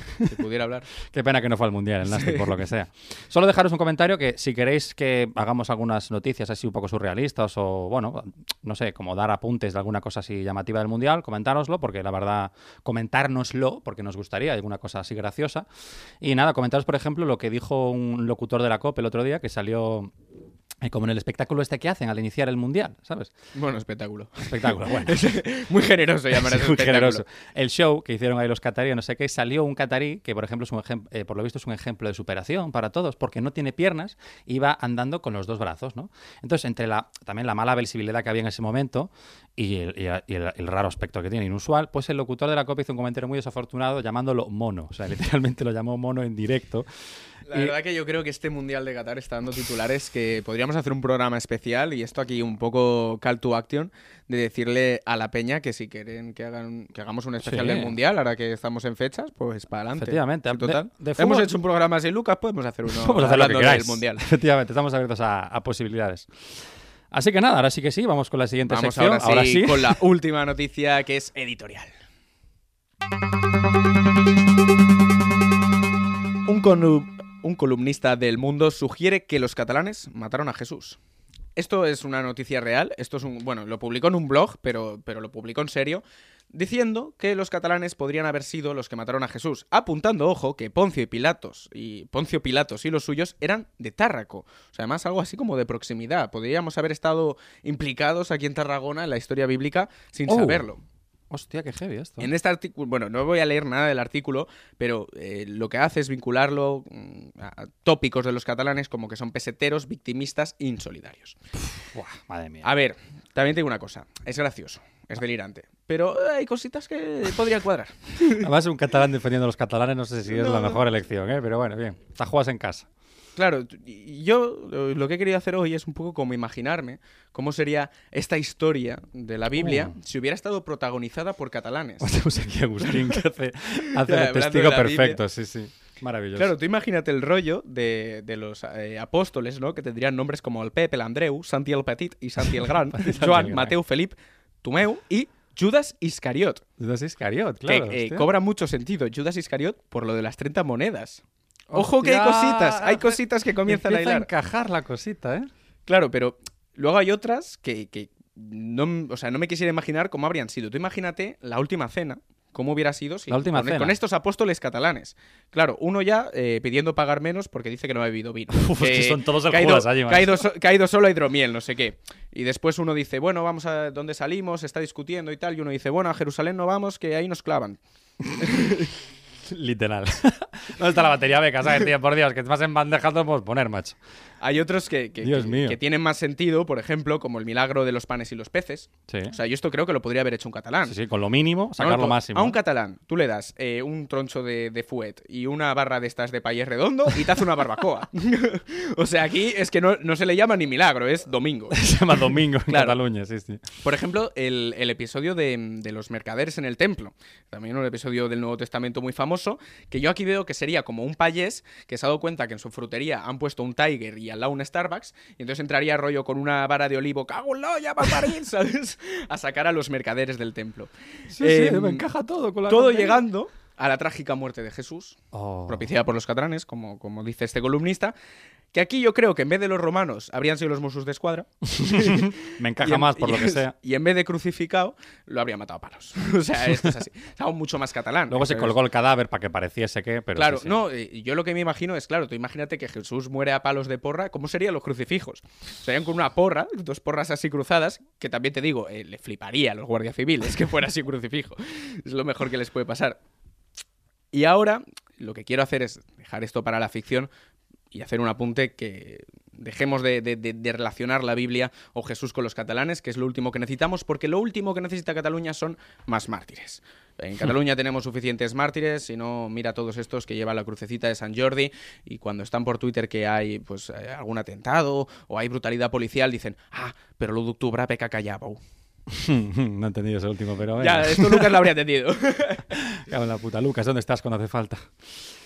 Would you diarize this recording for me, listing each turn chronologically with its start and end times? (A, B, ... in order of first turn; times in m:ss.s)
0:00.3-0:00.9 A
0:01.0-0:15.7 B
0:02.0-0:02.5 A
0:16.2-0:20.1 B
0:20.8-0:23.3 B
0:23.6-0:27.2 A
0:24.4-0:25.2 B
0:26.4-0:46.9 B
0:47.5-1:04.2 A
0:57.4-0:58.0 B
1:00.0-1:01.5 B
1:02.9-1:06.3 B
1:07.1-1:10.0 B
1:08.7-1:11.9 A
1:16.5-1:21.0 A
1:21.6-1:40.8 A
1:40.3-1:40.6 B
1:41.3-1:42.3 B
1:42.2-1:51.4 A
1:51.8-1:52.7 B
1:52.6-1:58.5 A
1:58.4-2:02.9 B
2:00.3-2:00.8 A
2:03.4-2:12.1 A
2:09.6-2:09.9 B
2:12.0-2:16.5 B
2:12.8-2:13.2 A
2:14.0-2:15.2 A
2:16.4-2:26.6 A
2:22.4-2:23.8 B
2:26.8-2:28.3 B
2:27.7-2:34.3 A
2:31.7-2:35.5 B
2:35.9-2:57.8 A
2:43.3-2:44.0 B
2:48.6-2:50.4 B
2:59.5-3:04.0 B
3:04.4-3:11.0 A
3:05.2-3:05.8 B
3:09.1-3:09.4 B
3:10.9-3:12.6 B
3:11.8-3:21.8 A
3:21.7-3:23.6 B
3:22.7-3:23.0 A
3:23.8-3:42.0 A
3:41.3-3:43.2 B
3:42.7-3:45.2 A
3:45.3-3:45.9 B
3:45.7-3:48.2 A
3:48.7-3:58.8 A
3:51.8-3:53.7 B
3:58.3-4:00.8 B
4:00.4-4:13.2 A
4:14.3-4:17.3 A
4:17.9-4:38.6 A
4:39.1-4:41.7 B
4:40.8-4:42.8 A
4:43.0-4:44.9 B